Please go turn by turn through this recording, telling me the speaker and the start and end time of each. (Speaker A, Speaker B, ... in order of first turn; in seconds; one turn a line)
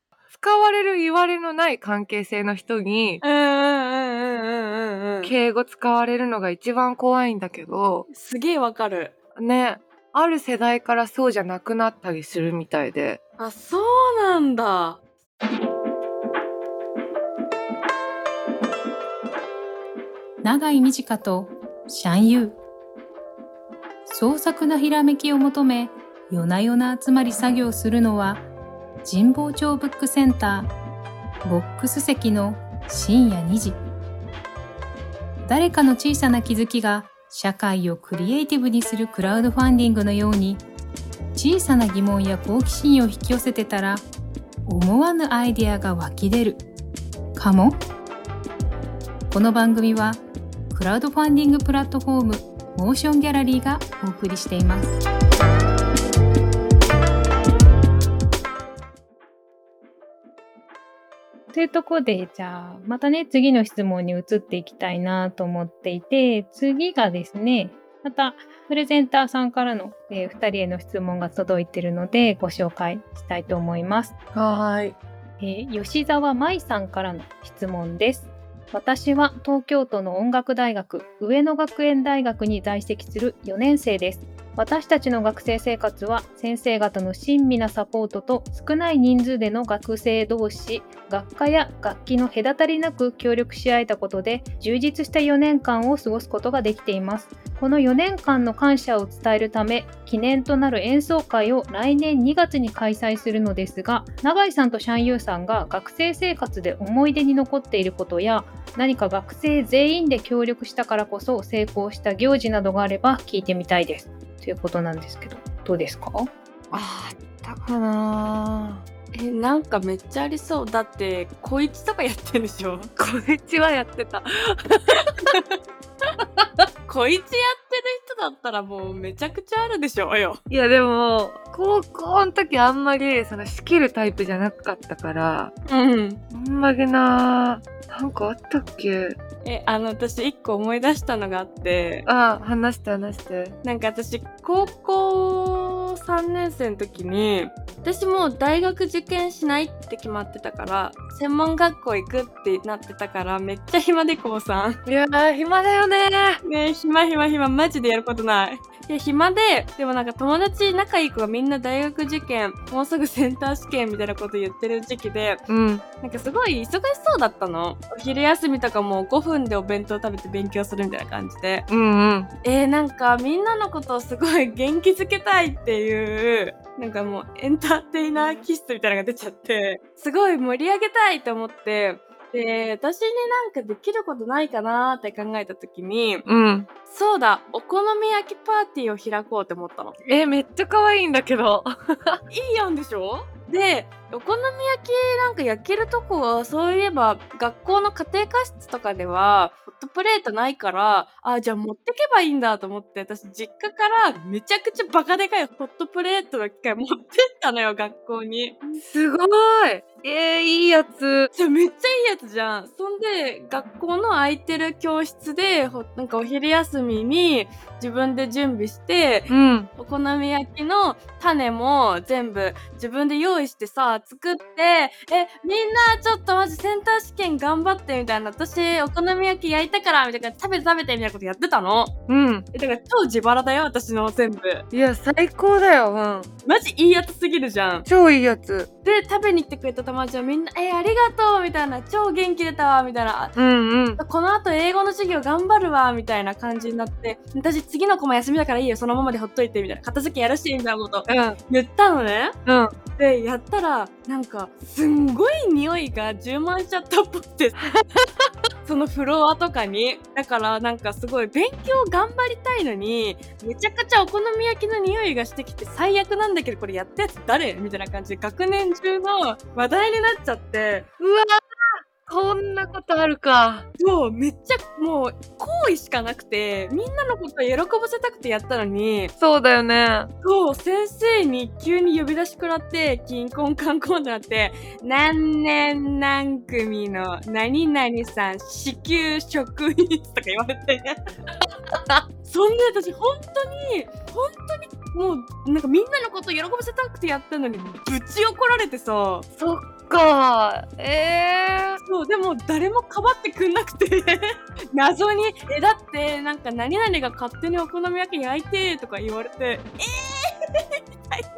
Speaker A: 0.3-3.2
Speaker B: 3.2-5.3
Speaker A: 5.2-8.1
Speaker B: 8.1-9.1
Speaker A: 9.4-13.2
Speaker B: 13.4-15.0
Speaker C: 20.4-22.6
Speaker C: 24.1-28.5
Speaker C: 29.0-30.7
Speaker C: 31.4-33.8
Speaker C: 35.5-40.6
Speaker C: 41.4-44.1
Speaker C: 44.7-46.6
Speaker C: 47.4-47.8
Speaker C: 49.3-55.0
Speaker C: 61.5-74.2
Speaker A: 74.3-75.0
Speaker C: 75.4-116.3
Speaker A: 116.7-118.8
Speaker B: 119.1-122.9
Speaker A: 123.0-125.3
Speaker B: 125.3-125.6
Speaker A: 126.4-126.7
Speaker B: 126.9-130.4
Speaker A: 130.5-135.5
Speaker B: 135.7-136.2
Speaker A: 136.3-139.2
Speaker B: 139.4-142.1
Speaker A: 142.1-143.6
Speaker B: 143.6-154.8
Speaker A: 154.9-156.4
Speaker B: 156.4-165.4
Speaker A: 165.5-165.8
Speaker B: 166.0-171.7
Speaker A: 171.7-172.3
Speaker B: 172.4-186.2
Speaker A: 186.3-186.7
Speaker B: 186.9-189.9
Speaker A: 190.1-192.2
Speaker B: 192.3-208.8
Speaker A: 208.8-211.3
Speaker B: 211.3-231.9
Speaker A: 219.3-219.7
Speaker A: 232.1-232.5
Speaker B: 232.5-234.7
Speaker A: 234.7-236.3
Speaker B: 236.4-237.9
Speaker A: 237.9-238.7
Speaker B: 238.8-243.4
Speaker A: 243.3-244.0
Speaker B: 244.0-252.4
Speaker A: 251.1-251.4
Speaker A: 252.5-252.7
Speaker B: 253.0-257.6
Speaker B: 258.6-270.9
Speaker A: 271.0-271.4
Speaker A: 272.0-273.7
Speaker B: 273.8-279.1
Speaker A: 279.2-280.1
Speaker B: 280.2-291.0
Speaker B: 292.2-299.3
Speaker A: 299.4-301.8
Speaker B: 301.8-304.2
Speaker B: 304.7-310.6